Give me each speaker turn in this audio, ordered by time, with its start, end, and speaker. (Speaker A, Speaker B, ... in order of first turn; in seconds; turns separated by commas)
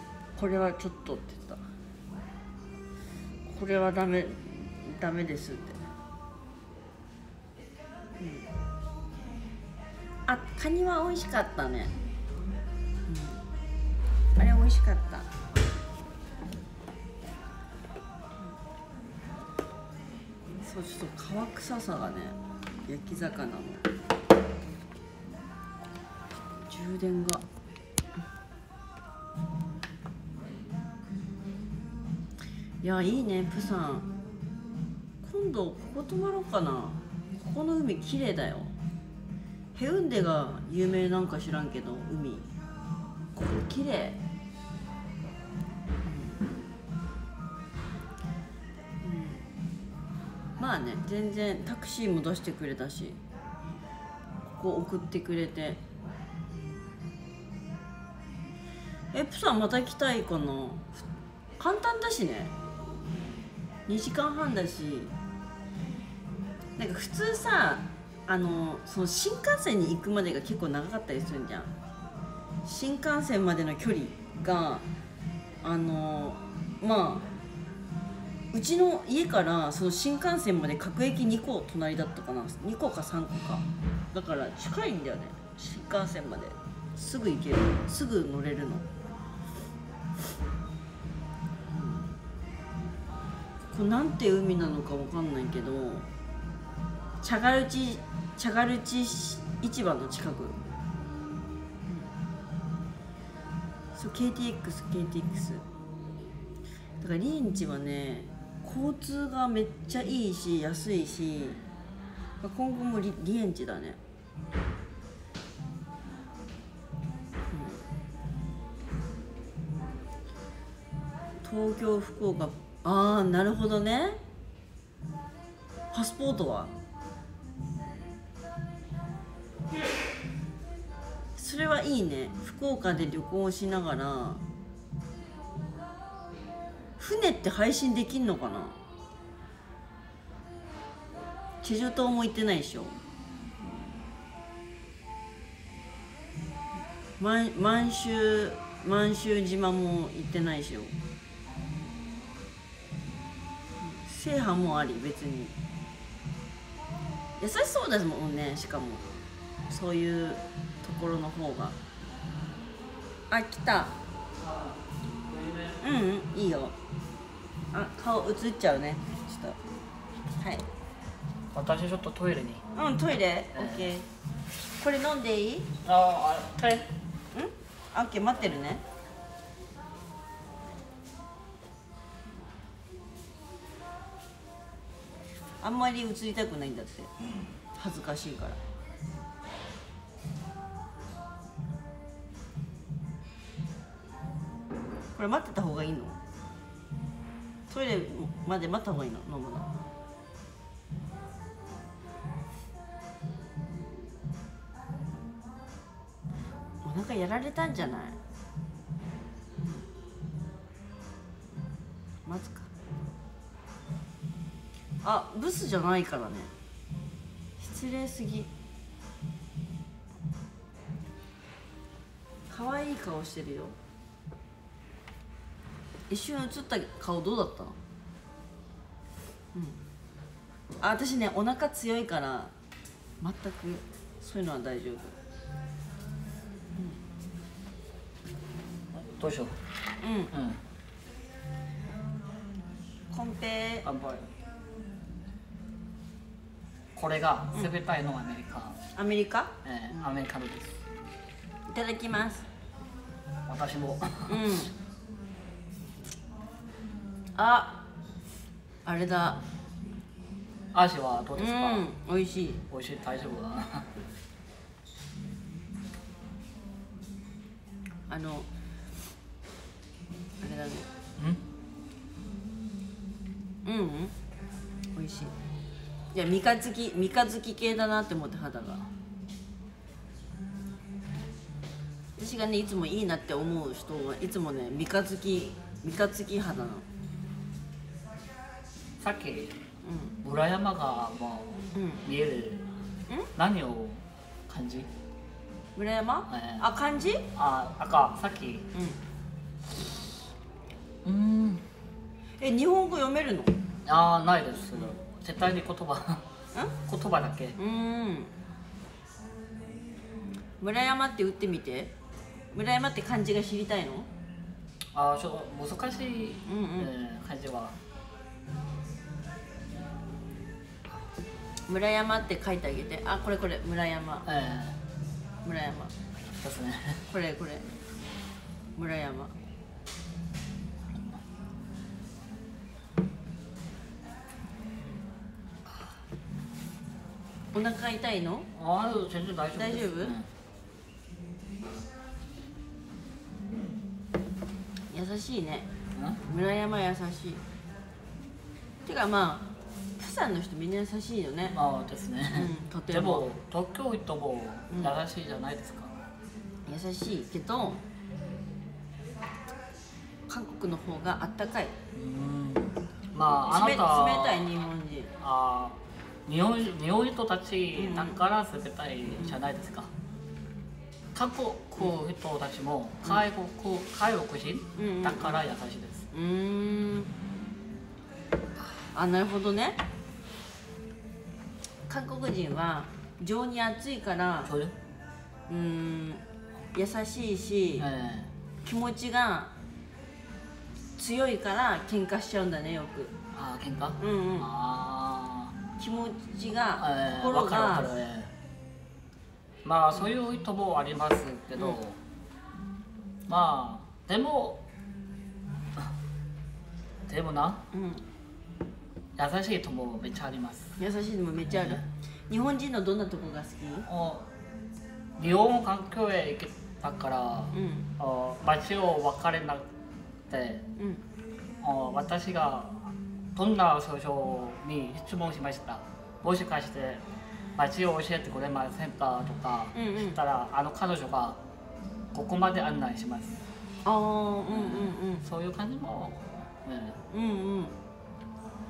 Speaker A: 0.3-1.6, Speaker A: 3.5-5.8, Speaker A: 8.2-8.5, Speaker A: 10.3-11.9, Speaker A: 13.1-13.4, Speaker A: 14.4-15.3, Speaker A: 20.6-23.9, Speaker A: 26.7-27.4, Speaker A: 32.8-34.1, Speaker A: 35.2-38.7, Speaker A: 39.8-42.5, Speaker A: 43.3-44.2, Speaker A: 46.0-46.4, Speaker A: 49.0-49.4, Speaker A: 50.6-53.2, Speaker A: 54.6-55.8, Speaker A: 59.1-61.0, Speaker A: 61.6-62.5, Speaker A: 63.9-65.1, Speaker A: 66.8-71.7, Speaker A: 72.7-74.8, Speaker A: 75.6-77.2, Speaker A: 78.5-88.8, Speaker A: 91.7-92.1, Speaker A: 93.7-96.1, Speaker A: 97.2-100.6, Speaker A: 104.0-105.6, Speaker A: 107.0-111.6, Speaker A: 112.4-114.0, Speaker A: 117.5-117.8, Speaker A: 121.4-124.2, Speaker A: 125.9-126.7, Speaker A: 131.4-134.4, Speaker A: 137.0-138.8, Speaker A: 141.6-143.0, Speaker A: 147.2-150.9, Speaker A: 153.8-155.5, Speaker A: 157.4-159.0, Speaker A: 159.7-161.8, Speaker A: 163.3-163.9, Speaker B: 164.4-165.8, Speaker A: 165.8-166.8, Speaker A: 167.7-169.6, Speaker A: 170.4-170.7, Speaker B: 171.5-172.7, Speaker A: 172.8-174.1, Speaker B: 173.6-173.9, Speaker A: 174.8-175.7, Speaker B: 175.8-176.9, Speaker A: 177.3-178.8, Speaker A: 185.6-187.1, Speaker A: 187.8-188.6, Speaker A: 195.2-196.2, Speaker A: 197.7-199.7, Speaker A: 206.8-208.2, Speaker A: 209.6-209.8, Speaker A: 212.3-212.7, Speaker A: 215.0-216.5, Speaker A: 217.6-218.5, Speaker A: 222.5-223.8, Speaker A: 226.1-227.8, Speaker A: 230.8-232.5, Speaker A: 233.2-235.2, Speaker B: 238.9-239.6, Speaker A: 240.0-240.3, Speaker B: 240.3-240.6, Speaker A: 243.1-243.9, Speaker B: 243.8-244.3, Speaker B: 246.9-248.8, Speaker A: 248.9-249.5, Speaker B: 249.6-250.8, Speaker A: 251.7-252.5, Speaker B: 253.5-254.5, Speaker A: 254.3-254.7, Speaker A: 257.4-257.8, Speaker A: 258.9-259.4, Speaker B: 260.7-261.9, Speaker A: 261.4-262.6, Speaker B: 262.7-263.9, Speaker A: 268.1-268.5, Speaker A: 270.4-270.9, Speaker B: 271.2-271.4, Speaker A: 273.6-274.1, Speaker A: 274.9-275.3, Speaker A: 276.1-278.9, Speaker A: 282.2-286.9, Speaker B: 289.0-289.6, Speaker A: 289.8-290.1, Speaker B: 290.2-292.7, Speaker A: 291.7-292.0, Speaker B: 293.4-294.9, Speaker A: 295.8-297.3, Speaker B: 296.3-296.7, Speaker B: 297.3-298.7, Speaker A: 298.7-299.0, Speaker B: 301.0-301.6, Speaker A: 302.4-303.6, Speaker B: 303.9-306.2, Speaker B: 306.9-307.6, Speaker A: 307.6-308.3, Speaker A: 310.6-311.9, Speaker A: 312.5-314.1, Speaker B: 314.9-317.8, Speaker A: 316.5-316.9, Speaker A: 321.7-324.3, Speaker B: 324.2-324.8, Speaker A: 325.4-325.9, Speaker B: 326.4-327.0, Speaker A: 327.1-327.7, Speaker A: 328.8-329.3, Speaker A: 337.5-338.5, Speaker B: 338.6-340.3, Speaker A: 339.6-340.2, Speaker A: 344.9-345.7, Speaker A: 346.2-347.4, Speaker A: 348.9-349.5, Speaker A: 350.0-351.6, Speaker B: 351.5-356.0, Speaker A: 352.3-353.2, Speaker A: 356.7-357.8, Speaker A: 360.3-361.8, Speaker B: 361.9-364.5, Speaker A: 363.4-365.1, Speaker B: 365.2-369.9, Speaker A: 367.8-368.2, Speaker B: 371.1-376.1, Speaker A: 374.8-375.4, Speaker A: 376.1-377.1, Speaker A: 378.9-379.8, Speaker A: 381.9-384.5, Speaker B: 384.4-384.8, Speaker A: 385.5-386.2, Speaker A: 386.7-387.9, Speaker B: 387.8-388.3, Speaker A: 388.6-389.5, Speaker A: 391.0-393.1, Speaker B: 393.3-395.5, Speaker A: 394.0-394.5, Speaker A: 395.8-397.9, Speaker B: 396.8-398.3, Speaker B: 399.6-402.0, Speaker B: 403.3-404.6, Speaker B: 407.1-407.6, Speaker A: 407.7-408.0, Speaker B: 409.2-410.8, Speaker A: 410.8-413.9, Speaker B: 413.9-414.3, Speaker B: 415.2-419.7, Speaker A: 417.5-417.9, Speaker B: 420.3-420.6, Speaker A: 420.8-421.0, Speaker B: 421.6-427.0, Speaker B: 427.6-431.4, Speaker A: 429.8-430.2, Speaker B: 432.1-433.4, Speaker A: 433.9-435.2, Speaker B: 434.5-437.0, Speaker A: 437.1-437.7